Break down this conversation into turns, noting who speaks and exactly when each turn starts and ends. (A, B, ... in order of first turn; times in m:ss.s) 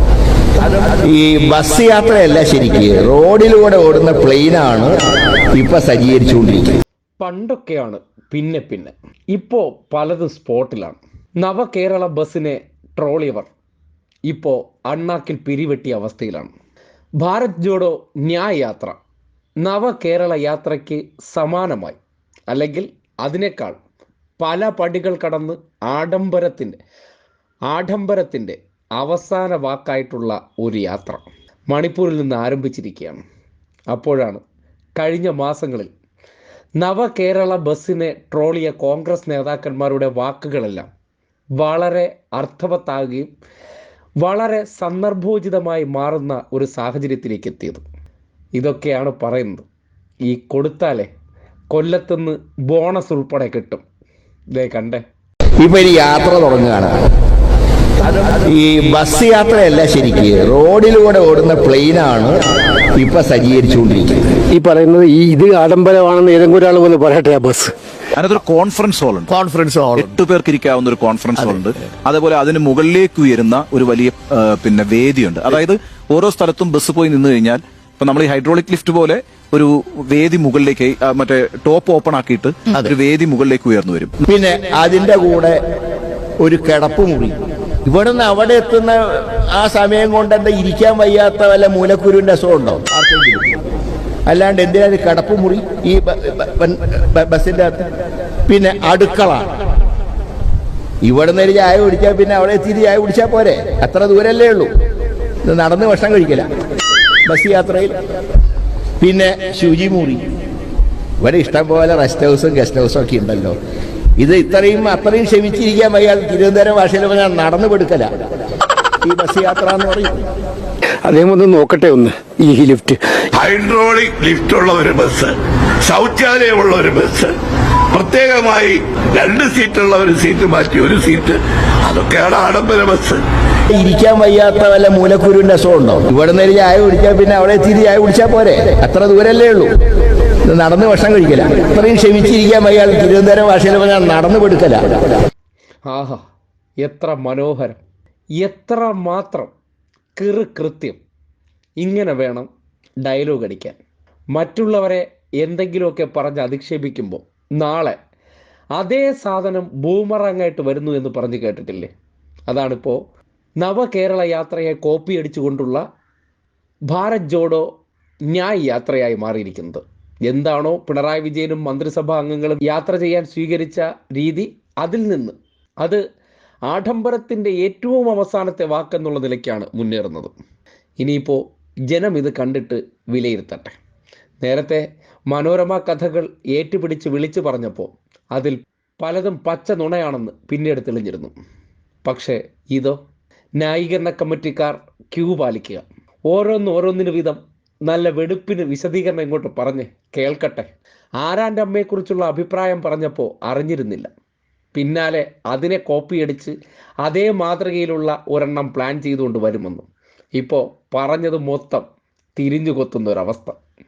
0:00.8-0:04.9 A
0:05.6-0:06.7 A
0:07.2-0:13.5 B
0:14.3-0:16.5 B
0:17.2-0:19.0 B
0:19.6-0:22.0 B
0:22.5-0:23.8 B
0:24.4-0:26.8 B
0:27.7-0:33.2 B
0:33.9-0:34.4 B
0:35.0-0:35.9 B
0:36.8-0:40.8 B
0:41.6-0:43.3 B
0:44.2-0:47.8 B
0:48.6-0:49.6 B
0:50.3-0:51.1 B
0:51.7-0:53.8 B
0:54.5-0:55.0 B
0:55.6-0:56.9 A
0:58.3-1:04.3 A
1:04.5-1:07.7 C
1:08.1-1:09.3 D
1:09.3-1:10.0 A
1:09.9-1:24.2 D
1:24.2-1:25.6 A
1:26.4-1:33.6 A
1:34.3-1:37.9 A
1:38.5-1:39.5 A
1:41.0-1:44.7 A
1:45.4-1:46.5 A
1:47.2-1:48.0 A
1:49.0-1:50.2 A
1:51.2-1:53.5 A
1:54.2-1:58.1 A
1:59.0-2:00.2 A
2:01.0-2:03.2 C
2:03.3-2:07.4 E
2:07.9-2:13.2 E
2:13.7-2:19.7 A
2:20.5-2:24.8 A
2:25.8-2:26.2 B
2:26.8-2:27.8 B
2:28.4-2:29.5 B
2:30.2-2:31.0 B
2:31.8-2:32.5 B
2:33.0-2:33.8 B
2:34.3-2:38.0 B
2:38.8-2:41.9 B
2:42.5-2:43.0 B
2:43.6-2:45.8 B
2:46.9-2:47.7 B
2:48.3-2:56.0 B
2:56.7-3:00.3 B
3:01.0-3:03.8 B
3:04.4-3:11.3 B
3:12.0-3:13.0 B
3:13.6-3:20.7 B
3:21.2-3:24.1 B
3:24.7-3:29.8 B
3:30.4-3:33.6 B